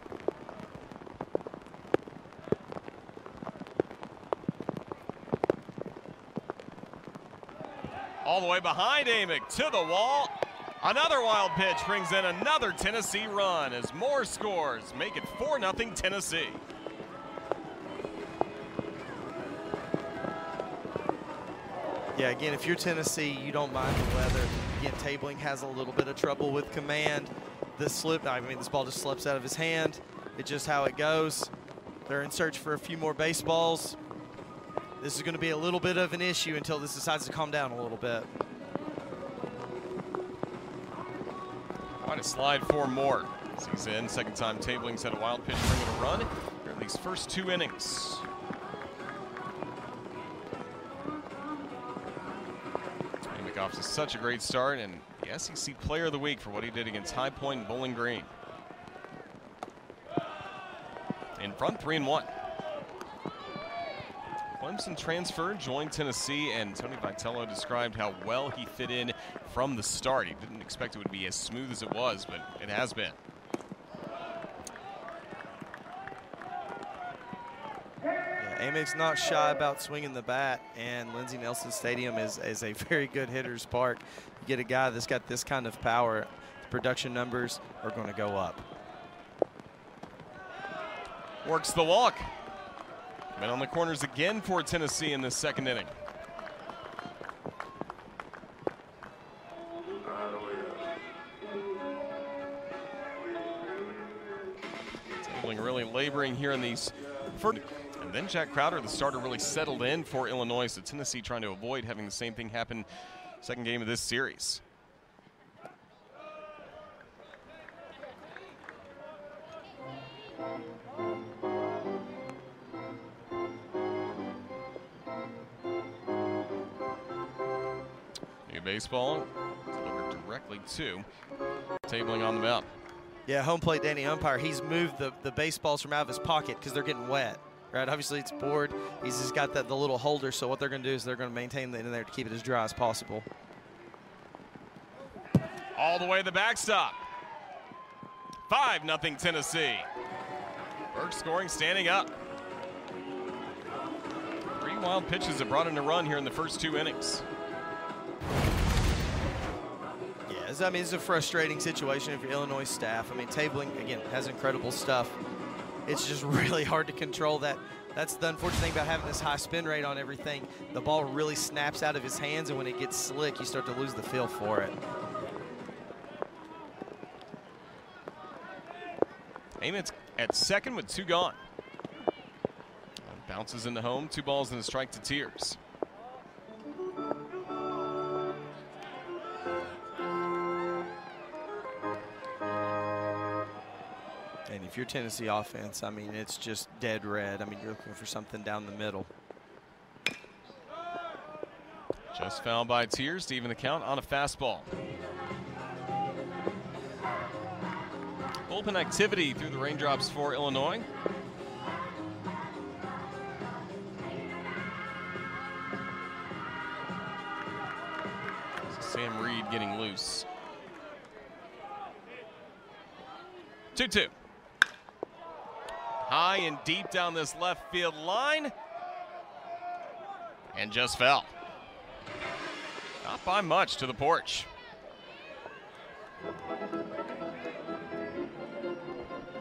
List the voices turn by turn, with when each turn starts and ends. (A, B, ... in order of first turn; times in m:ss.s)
0:08.2-0:16.6 A
0:22.1-0:31.5 B
0:32.1-0:34.0 B
0:35.0-0:38.3 B
0:42.0-0:48.2 A
0:53.3-0:58.3 A
1:01.4-1:02.3 A
1:04.5-1:13.2 A
1:18.4-1:28.6 B
1:31.4-1:32.3 A
1:33.3-1:35.9 A
1:45.2-1:52.9 A
1:53.4-1:54.6 A
2:08.4-2:11.0 A
2:11.8-2:12.7 A
2:13.3-2:23.3 B
2:25.8-2:27.0 A
2:28.5-2:29.9 A
2:30.9-2:32.1 A
2:34.6-2:37.2 A
2:40.3-2:45.2 B
2:45.8-2:54.8 B
2:59.6-3:01.4 A
3:03.0-3:05.6 A
3:14.5-3:19.1 B
3:22.1-3:24.7 A
3:28.5-3:30.9 A
3:38.7-3:40.3 A
3:43.7-3:44.1 A
3:46.0-3:48.5 A
3:50.5-3:51.3 A
3:53.0-3:54.5 A